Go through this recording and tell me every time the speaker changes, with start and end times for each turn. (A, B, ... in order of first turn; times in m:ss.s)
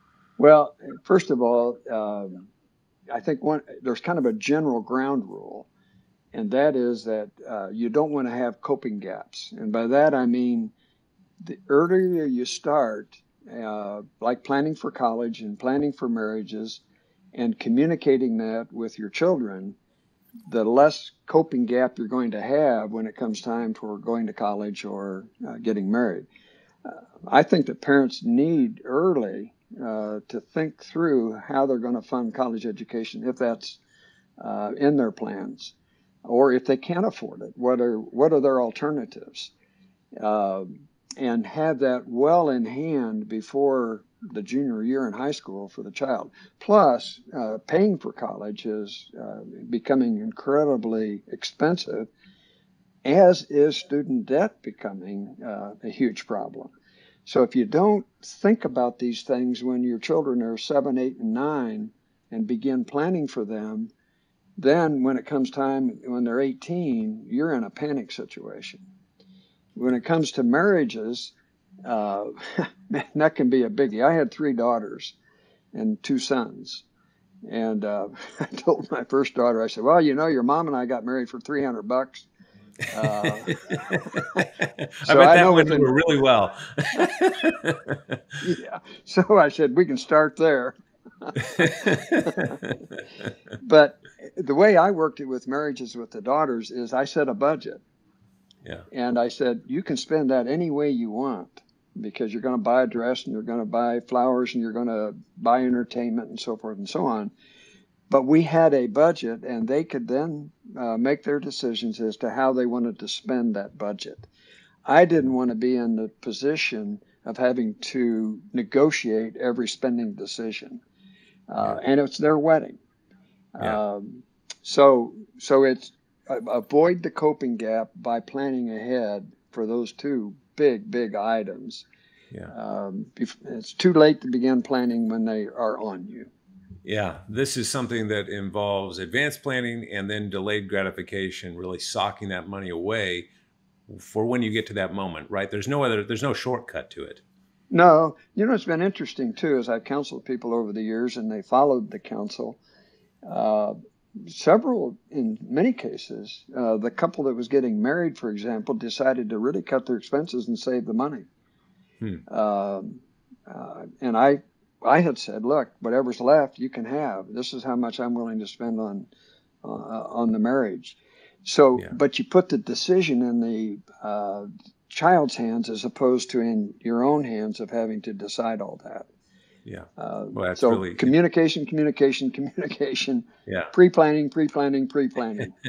0:00.4-0:02.5 A
0:03.1-0:05.7 A
0:06.3-0:10.7 A
0:11.4-0:16.8 A
0:17.3-0:19.8 A
0:20.5-0:26.3 A
0:26.8-0:33.8 A
0:34.4-0:35.7 A
0:36.2-0:39.5 A
0:40.2-0:52.1 A
0:53.0-0:56.7 A
0:57.2-1:03.9 A
1:04.6-1:08.8 A
1:09.8-1:15.2 A
1:15.7-1:16.8 A
1:17.5-1:22.3 A
1:22.9-1:24.0 A
1:23.1-1:28.1 B
1:25.0-1:25.9 A
1:28.4-1:32.6 A
1:31.6-1:32.7 B
1:33.6-1:37.8 A
1:38.9-1:47.3 A
1:48.1-1:54.3 A
1:54.8-2:00.8 A
2:01.5-2:02.8 A
2:03.6-2:11.8 A
2:12.5-2:16.3 A
2:16.8-2:23.3 B
2:23.9-2:27.2 B
2:27.7-2:32.6 A
2:33.2-2:33.8 A
2:34.3-2:41.2 A
2:42.3-2:49.1 A
2:49.6-2:59.1 A
2:59.6-3:01.1 B
3:00.0-3:05.5 A
3:03.5-3:03.7 B